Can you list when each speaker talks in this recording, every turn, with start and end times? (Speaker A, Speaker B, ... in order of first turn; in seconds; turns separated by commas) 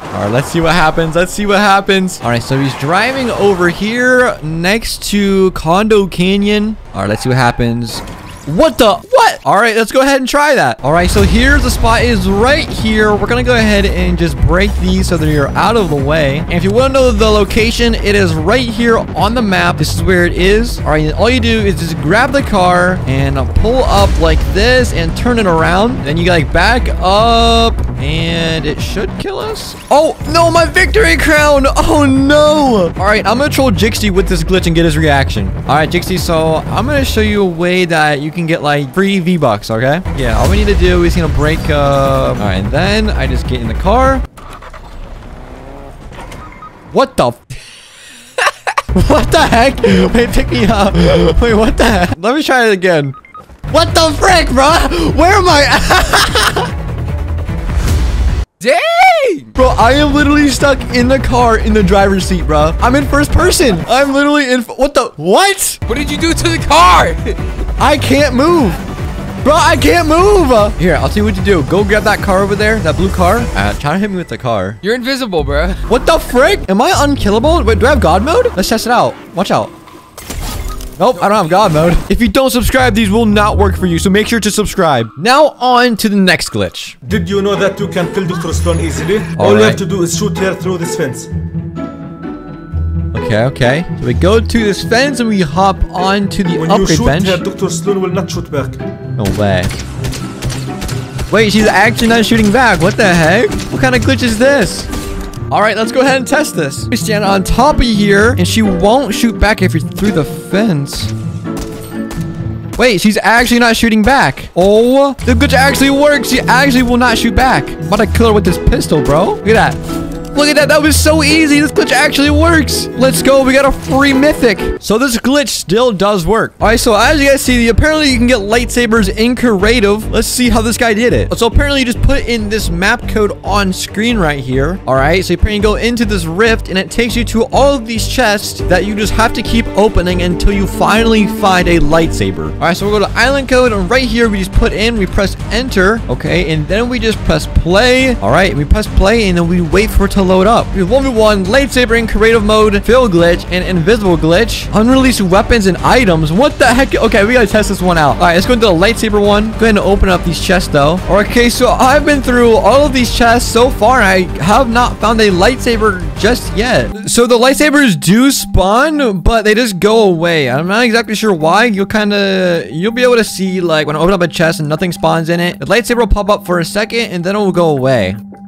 Speaker A: 0.1-44.2, Speaker A: 46.9-47.5, Speaker A: 48.7-53.2, Speaker A: 53.7-56.7, Speaker B: 58.6-59.5, Speaker A: 59.5-65.8, Speaker B: 65.9-67.4, Speaker A: 67.8-68.8, Speaker A: 69.4-74.8, Speaker B: 74.8-75.8, Speaker A: 75.8-79.7, Speaker A: 81.0-87.0, Speaker C: 87.0-91.3, Speaker A: 89.3-89.8, Speaker A: 93.1-97.4, Speaker C: 96.5-98.8, Speaker A: 99.2-99.8, Speaker A: 101.3-104.9, Speaker A: 105.5-111.1, Speaker A: 112.8-119.8, Speaker A: 120.3-178.2